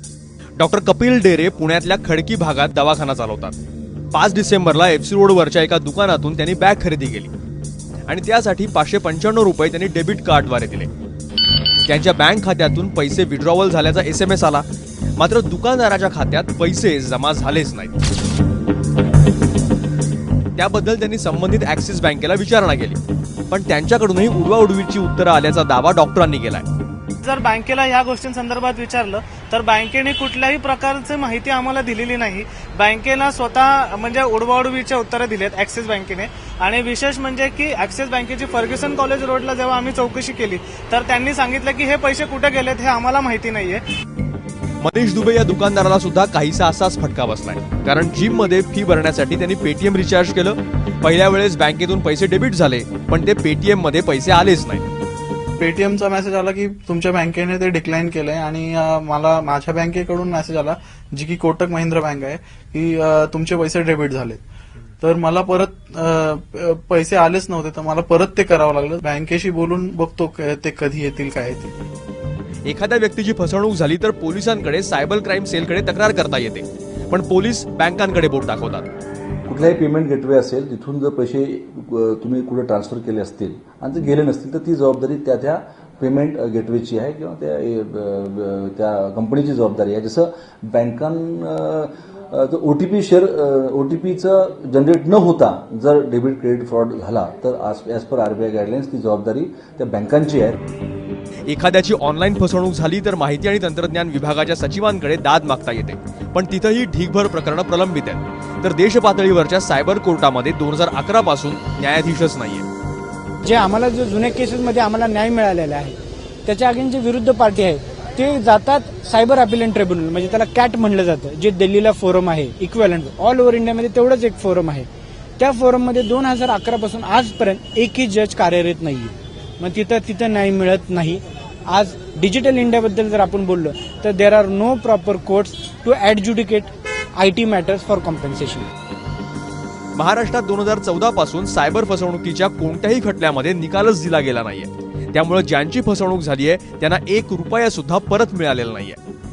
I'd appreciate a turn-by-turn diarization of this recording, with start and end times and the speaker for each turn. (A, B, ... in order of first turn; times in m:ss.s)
0:00.6-0:03.5 A
0:04.1-0:07.3 A
0:08.1-0:10.9 A
0:11.8-0:17.9 A
0:20.6-0:26.6 A
0:27.2-0:43.8 B
0:44.8-0:54.8 A
0:55.6-1:04.4 C
1:05.0-1:11.7 C
1:12.6-1:18.9 A
1:19.4-1:40.6 D
1:41.5-1:52.6 A
1:53.4-2:04.9 E
2:05.4-2:18.6 E
2:19.9-2:29.0 A